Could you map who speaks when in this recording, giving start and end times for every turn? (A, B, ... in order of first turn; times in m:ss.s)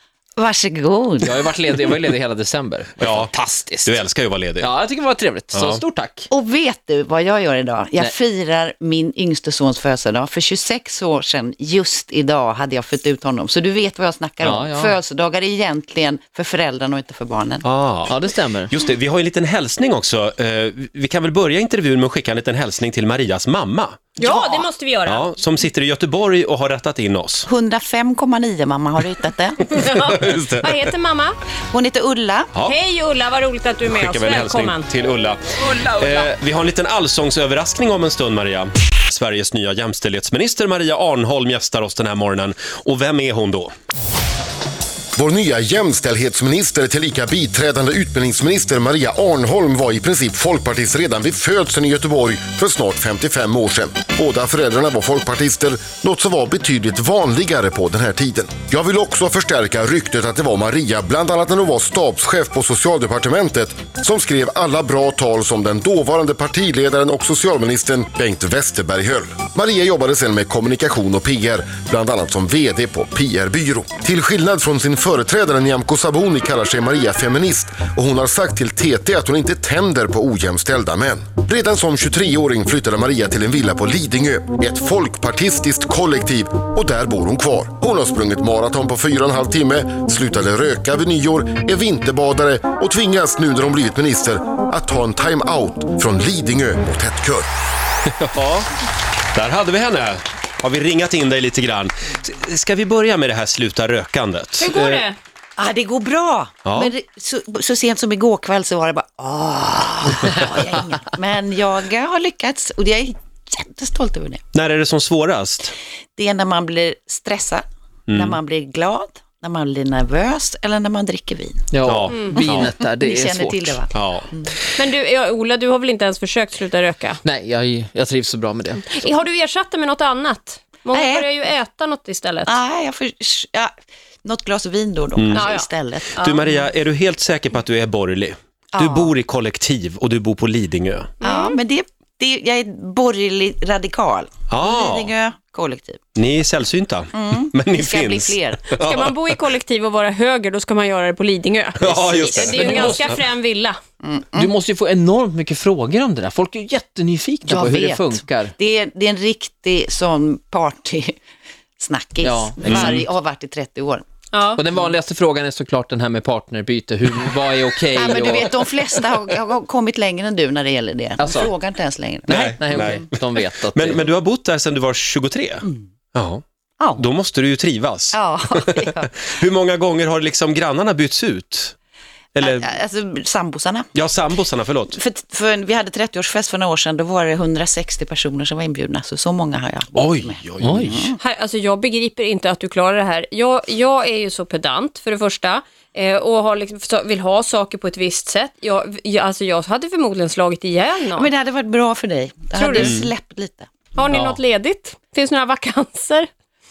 0:00.4-0:01.3 A
0:01.2-0:04.0 B
0:03.0-0:03.3 C
0:03.8-0:04.7 C
0:04.6-0:06.3 B
0:05.5-0:05.8 C
0:06.3-0:17.6 A
0:14.4-0:15.0 B
0:17.6-0:24.2 C
0:18.1-0:18.7 B
0:24.2-0:25.3 D
0:24.2-0:24.7 A
0:25.0-0:27.5 C
0:27.4-0:29.6 A
0:29.6-0:31.3 D
0:29.9-0:30.9 C
0:31.7-0:32.5 A
0:32.6-0:34.9 D
0:33.9-0:43.7 C
0:35.6-0:36.3 B
0:45.2-1:37.5 E
1:38.2-1:38.7 C
1:39.3-1:45.0 C
1:44.6-1:45.2 D
1:45.6-1:54.4 A
1:46.6-1:46.9 C
1:54.5-1:55.7 C
1:56.2-2:01.7 A
1:58.1-1:58.4 C
2:01.7-2:03.8 B
2:01.8-2:02.7 C
2:02.3-2:04.5 A
2:03.9-2:04.3 C
2:04.8-2:07.2 D
2:07.2-2:08.9 B
2:08.8-2:12.5 D
2:10.9-2:11.3 A
2:12.4-2:13.7 A
2:14.2-2:16.2 A
2:15.2-2:15.5 C
2:15.3-2:16.4 D
2:16.2-2:21.1 C
2:18.7-2:19.1 A
2:21.2-2:21.6 D
2:21.2-2:26.0 A
2:24.5-2:25.1 C
2:26.1-2:29.2 C
2:27.1-2:28.6 A
2:28.8-2:33.8 D
2:31.8-2:33.2 C
2:32.5-2:33.0 B
2:34.0-2:34.5 A
2:34.3-2:38.5 B
2:37.5-2:41.1 A
2:41.8-2:44.0 A
2:42.2-2:43.1 B
2:42.6-2:42.9 C
2:44.3-2:44.6 D
2:44.5-2:48.7 B
2:47.9-2:53.0 A
2:51.2-2:51.5 B
2:52.3-2:54.1 B
2:52.3-2:56.4 C
2:56.8-2:57.1 A
2:57.0-3:01.7 C
2:58.1-2:59.1 A
3:02.3-3:02.7 C
3:02.4-3:03.9 A
3:03.9-3:05.0 C
3:04.9-3:11.2 A
3:09.9-3:10.9 C
3:10.6-3:11.0 B
3:11.2-3:21.3 D
3:21.1-3:23.7 A
3:22.5-3:23.0 D
3:22.8-3:23.0 C
3:23.9-3:26.3 D
3:24.1-3:24.4 B